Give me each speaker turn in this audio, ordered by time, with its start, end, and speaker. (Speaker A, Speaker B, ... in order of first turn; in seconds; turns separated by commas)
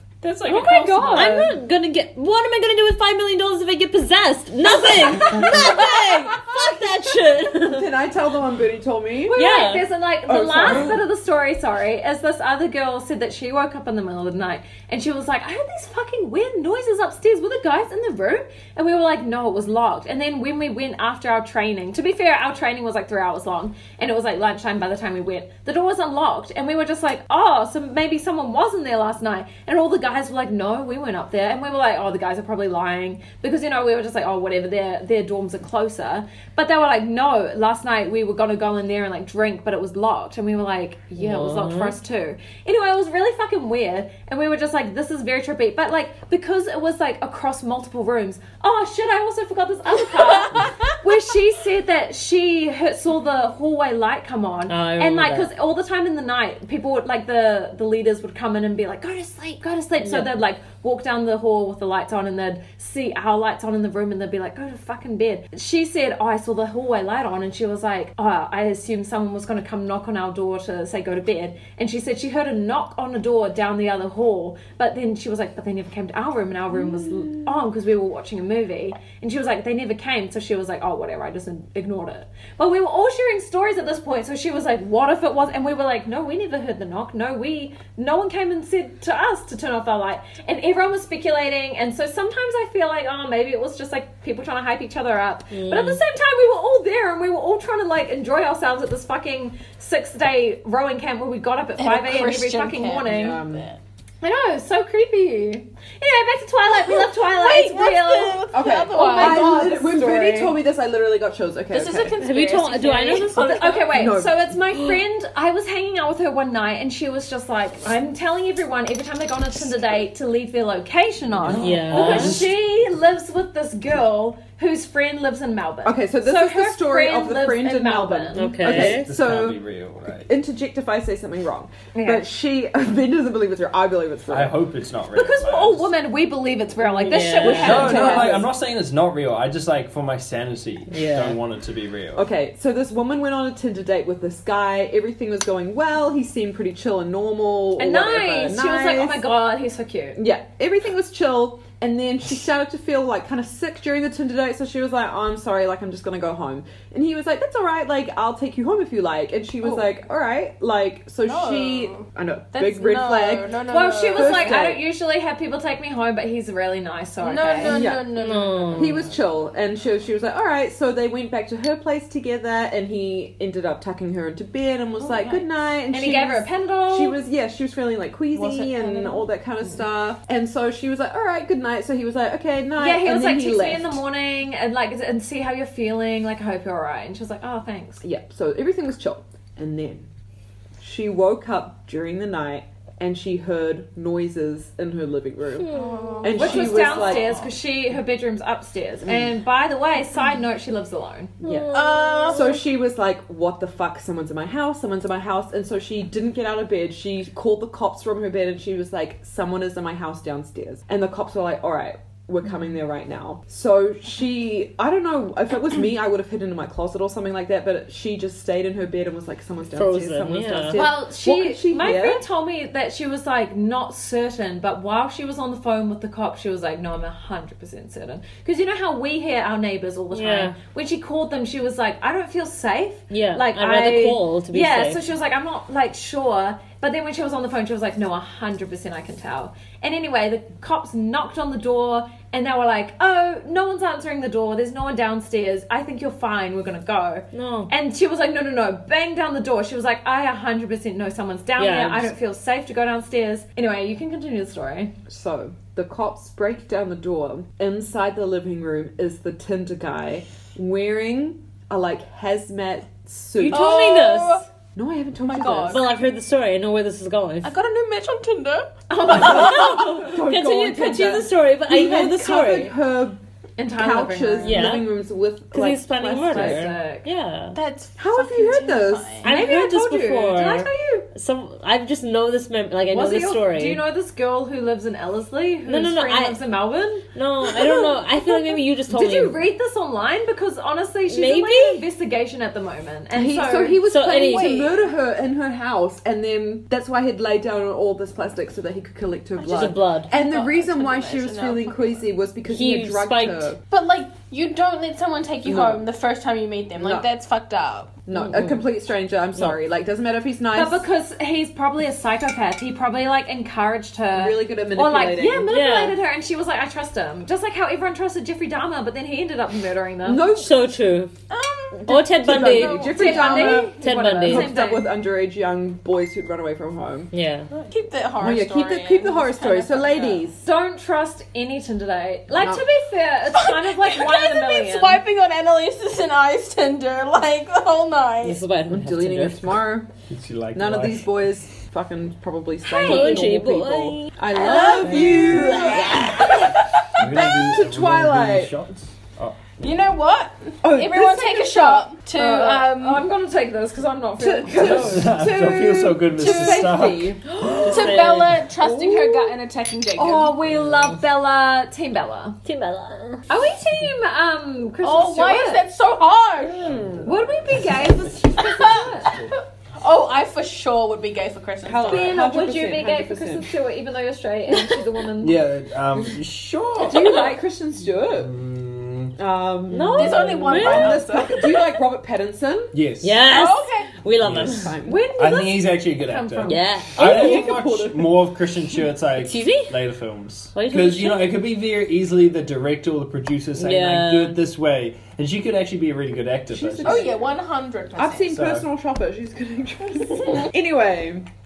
Speaker A: 0.2-1.4, Speaker B: 0.4-1.5, Speaker C: 1.1-7.9, Speaker B: 4.7-5.9, Speaker D: 7.5-9.4, Speaker B: 9.3-103.4, Speaker C: 9.3-9.9, Speaker D: 10.2-11.0, Speaker C: 41.2-41.9, Speaker E: 50.4-50.7, Speaker C: 54.7-55.5, Speaker C: 60.0-60.3, Speaker C: 95.5-96.0, Speaker E: 101.8-103.8, Speaker D: 103.1-103.7, Speaker B: 104.2-109.5, Speaker E: 106.7-110.6, Speaker D: 108.5-112.2, Speaker E: 111.7-114.0, Speaker C: 112.2-113.8, Speaker B: 113.3-128.6, Speaker D: 113.9-114.5, Speaker A: 121.4-122.5, Speaker C: 121.5-122.4, Speaker D: 125.8-129.6, Speaker C: 128.3-129.1, Speaker A: 128.6-130.3, Speaker D: 130.3-134.6, Speaker B: 131.9-132.2, Speaker A: 134.3-135.9, Speaker B: 135.1-138.4, Speaker C: 137.0-138.2, Speaker D: 137.4-138.4, Speaker A: 137.4-142.2, Speaker C: 140.9-141.4, Speaker D: 142.1-149.2, Speaker B: 147.8-150.2, Speaker D: 150.2-163.6, Speaker E: 159.6-159.9, Speaker E: 161.2-164.5, Speaker B: 163.7-167.8, Speaker D: 164.1-164.8, Speaker E: 167.2-169.0, Speaker D: 167.6-168.2, Speaker C: 168.1-169.0, Speaker D: 168.7-184.0, Speaker E: 175.0-175.4, Speaker B: 175.9-177.2, Speaker E: 178.3-179.3, Speaker B: 182.8-188.0, Speaker D: 188.0-190.1, Speaker D: 190.8-195.7, Speaker C: 195.6-196.4, Speaker E: 195.7-197.5, Speaker D: 196.2-197.4, Speaker B: 196.3-201.3, Speaker D: 199.1-199.3, Speaker C: 201.4-202.6, Speaker D: 201.4-222.2, Speaker E: 201.7-202.6, Speaker C: 219.7-220.9, Speaker B: 220.7-254.9, Speaker C: 230.1-230.5, Speaker C: 233.1-235.0, Speaker C: 247.3-247.7, Speaker C: 251.6-252.1, Speaker D: 255.1-263.9, Speaker C: 263.4-264.4, Speaker E: 263.5-264.4, Speaker D: 264.7-265.8, Speaker E: 265.2-265.9, Speaker C: 265.6-267.5, Speaker E: 267.4-268.8, Speaker B: 268.9-269.9, Speaker C: 269.1-272.7, Speaker D: 269.1-273.2, Speaker B: 273.6-274.8, Speaker D: 273.7-276.7, Speaker C: 274.4-277.6, Speaker B: 276.3-277.1, Speaker E: 277.5-279.3, Speaker D: 278.0-279.2, Speaker B: 279.2-281.1, Speaker C: 279.2-283.8, Speaker B: 282.9-293.8, Speaker C: 285.6-286.4, Speaker C: 287.1-289.4, Speaker C: 291.1-291.9, Speaker D: 293.1-303.6, Speaker C: 293.9-294.7, Speaker E: 294.3-294.8, Speaker C: 299.4-300.1, Speaker E: 300.1-302.1, Speaker C: 302.5-303.5, Speaker E: 303.7-307.9, Speaker D: 305.4-305.8, Speaker D: 306.8-307.1, Speaker D: 308.1-310.8, Speaker C: 308.1-308.6, Speaker B: 310.5-320.3, Speaker D: 314.1-315.5, Speaker C: 315.5-316.0, Speaker D: 320.0-320.5, Speaker C: 320.3-321.1, Speaker E: 321.3-323.5, Speaker D: 321.8-327.1, Speaker C: 321.9-324.6, Speaker B: 322.5-324.9, Speaker C: 327.1-327.5, Speaker E: 327.5-330.3, Speaker D: 328.2-330.4, Speaker B: 330.4-335.0, Speaker D: 332.3-332.6, Speaker E: 333.3-338.4, Speaker C: 338.2-339.6, Speaker D: 338.7-339.9, Speaker A: 340.1-341.1, Speaker D: 340.5-348.5, Speaker E: 342.7-343.3, Speaker C: 342.8-346.4, Speaker E: 344.3-347.0, Speaker A: 346.9-349.5, Speaker E: 349.6-353.0, Speaker D: 350.6-351.9, Speaker B: 352.1-355.0, Speaker D: 354.2-357.4, Speaker A: 354.6-357.2, Speaker E: 356.2-356.8, Speaker B: 357.2-358.0, Speaker E: 357.6-360.4, Speaker C: 357.6-358.4, Speaker D: 358.6-359.2, Speaker B: 359.9-362.4, Speaker C: 362.4-363.2, Speaker B: 363.3-365.7, Speaker E: 364.8-366.7, Speaker A: 366.6-368.1, Speaker D: 366.7-367.0, Speaker B: 367.0-369.1, Speaker E: 368.4-372.3, Speaker A: 369.0-369.3, Speaker D: 371.6-373.5, Speaker B: 371.8-375.4, Speaker A: 375.2-377.3, Speaker D: 376.8-378.3, Speaker A: 377.9-379.1, Speaker D: 379.1-382.7, Speaker C: 379.7-381.0, Speaker E: 379.9-381.8, Speaker A: 382.7-383.2, Speaker C: 383.0-384.7, Speaker E: 383.3-384.0, Speaker A: 384.2-397.1, Speaker D: 384.3-385.0, Speaker B: 384.8-386.7, Speaker C: 386.4-387.5, Speaker D: 386.9-388.2, Speaker C: 389.2-389.7, Speaker C: 390.5-391.4, Speaker C: 393.6-394.4, Speaker D: 396.5-397.4, Speaker E: 396.8-398.4, Speaker D: 397.9-401.3, Speaker A: 398.3-398.7